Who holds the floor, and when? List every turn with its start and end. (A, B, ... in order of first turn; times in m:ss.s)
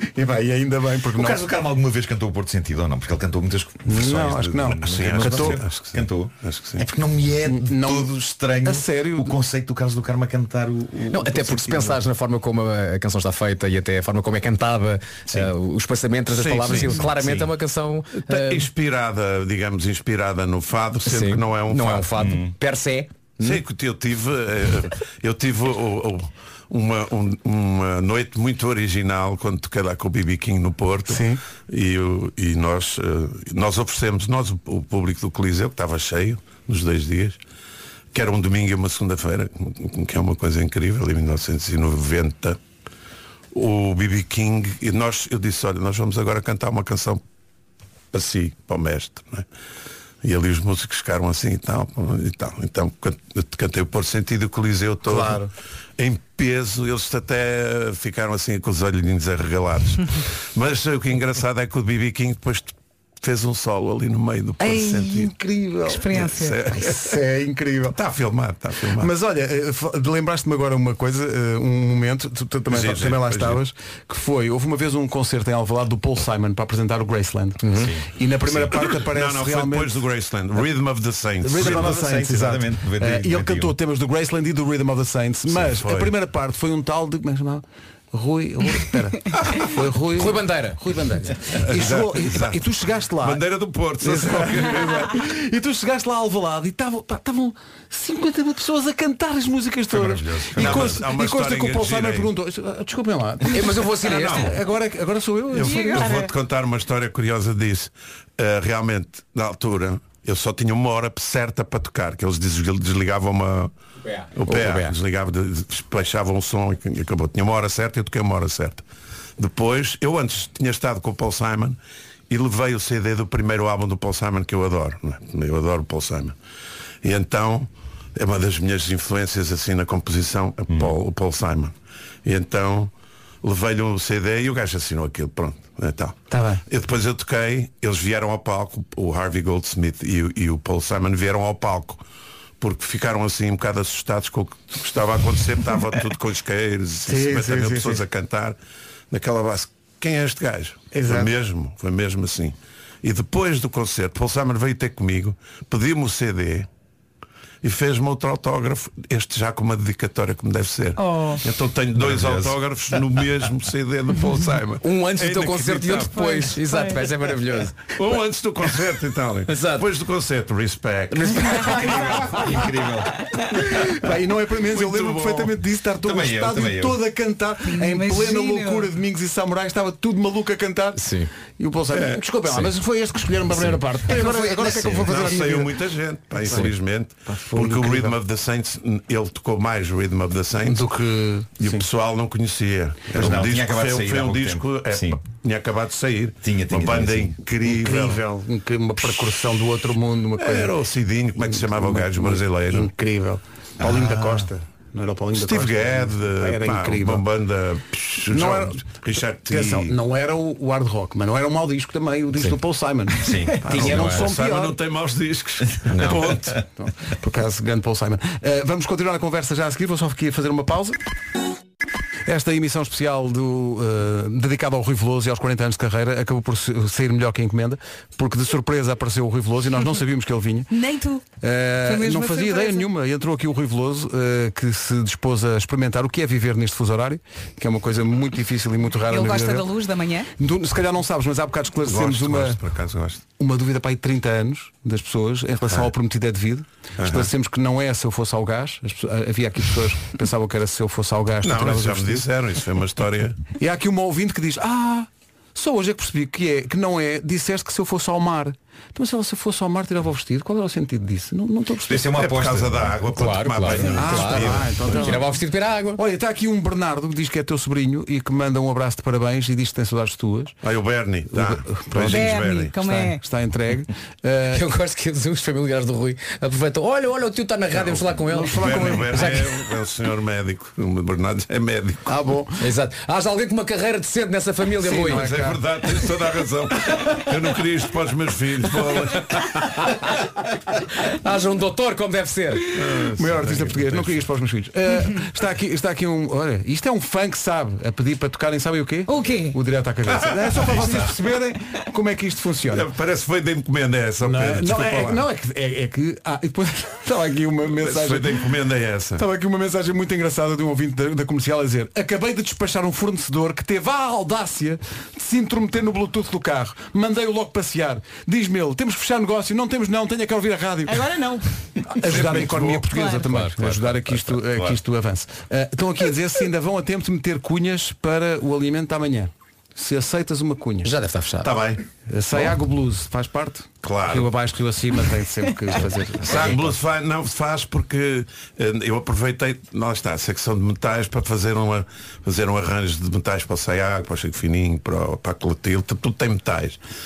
0:00.1-0:01.5 A
0:01.1-0:12.0 B
0:03.8-0:05.6 A
0:04.8-0:06.8 C
0:07.4-0:09.4 A
0:11.1-0:18.7 D
0:16.3-0:17.4 C
0:16.7-0:17.5 B
0:18.1-0:22.2 C
0:21.0-0:23.6 D
0:22.2-0:22.5 B
0:23.4-0:37.4 C
0:31.1-0:31.4 A
0:38.1-0:42.6 C
0:43.5-0:47.2 C
0:48.1-0:49.4 C
0:50.2-0:55.5 C
0:55.0-0:55.5 A
0:56.0-1:05.3 C
1:04.6-1:08.0 A
1:05.9-1:06.6 E
1:06.1-1:07.0 C
1:07.9-1:09.1 C
1:09.0-1:20.0 A
1:12.7-1:13.6 C
1:17.6-1:17.9 D
1:17.8-1:18.1 B
1:18.8-1:22.0 C
1:21.4-1:33.5 A
1:21.6-1:23.8 B
1:25.5-1:26.1 C
1:30.2-1:30.8 D
1:31.6-1:32.6 C
1:33.2-1:35.1 C
1:34.0-1:46.2 A
1:39.9-1:42.3 C
1:43.5-1:44.5 D
1:44.0-1:44.5 C
1:45.5-1:53.7 C
1:45.6-1:46.3 E
1:54.1-1:55.0 D
1:54.3-1:58.8 C
1:59.4-2:01.8 C
2:02.3-2:06.3 C
2:07.0-2:11.7 C
2:12.2-2:12.9 C
2:13.4-2:22.0 C
2:16.3-2:16.6 A
2:22.6-2:28.6 C
2:27.0-2:28.0 A
2:29.1-2:36.7 C
2:30.9-2:31.3 A
2:37.6-2:46.3 C
2:41.0-2:41.4 E
2:42.0-2:43.2 B
2:44.8-2:47.9 D
2:46.1-2:47.0 E
2:47.9-2:52.0 C
2:49.5-2:49.8 D
2:51.6-2:53.1 B
2:53.5-3:05.8 A
2:54.7-2:55.6 C
2:56.0-2:57.0 B
2:57.7-2:58.9 E
3:01.0-3:01.3 D
3:01.9-3:02.3 C
3:03.5-3:05.3 D
3:04.9-3:10.9 C
3:06.4-3:06.7 D
3:07.3-3:08.2 A
3:10.6-3:11.8 A
3:11.6-3:18.2 C
3:13.1-3:15.2 B
3:16.4-3:17.3 B
3:17.6-3:20.8 A
3:20.4-3:22.9 C
3:21.4-3:27.3 A
3:23.8-3:24.4 B
3:25.3-3:29.9 C
3:28.3-3:28.8 A
3:29.4-3:34.8 A
3:33.2-3:33.6 B
3:33.6-3:36.6 C
3:33.7-3:34.3 D
3:35.9-3:36.4 D
3:36.8-3:41.0 A
3:42.2-3:50.7 A
3:50.7-3:51.2 E
3:51.4-3:59.7 A
3:51.8-3:52.9 E
3:59.1-4:00.3 E
4:00.4-4:02.6 A
4:01.8-4:03.2 C
4:03.4-4:12.3 A
4:07.0-4:07.3 C
4:11.4-4:13.4 C
4:13.6-4:22.2 A
4:21.9-4:23.0 B
4:22.1-4:25.1 C
4:23.1-4:26.0 D
4:23.9-4:25.4 A
4:25.9-4:30.6 A
4:30.6-4:32.8 C
4:31.3-4:34.6 A
4:32.0-4:33.2 E
4:34.5-4:39.6 D
4:37.8-4:42.1 C
4:38.3-4:39.4 A
4:42.0-4:42.7 A
4:42.6-4:45.3 D
4:44.8-4:45.6 A
4:45.0-4:49.6 C
4:51.0-4:52.7 D
4:52.7-4:54.2 C
4:53.1-5:02.9 A
4:59.1-4:59.6 E
5:00.1-5:01.0 C
5:02.7-5:05.2 C
5:04.2-5:08.5 A
5:07.7-5:09.2 C
5:09.1-5:21.1 A
5:20.9-5:21.5 E
5:21.9-5:30.9 A
5:22.1-5:22.9 C
5:23.2-5:23.6 D
5:30.8-5:31.6 D
5:31.4-5:31.8 C
5:32.1-5:36.6 A
5:33.8-5:34.3 C
5:36.2-5:46.8 C
5:36.2-5:36.6 D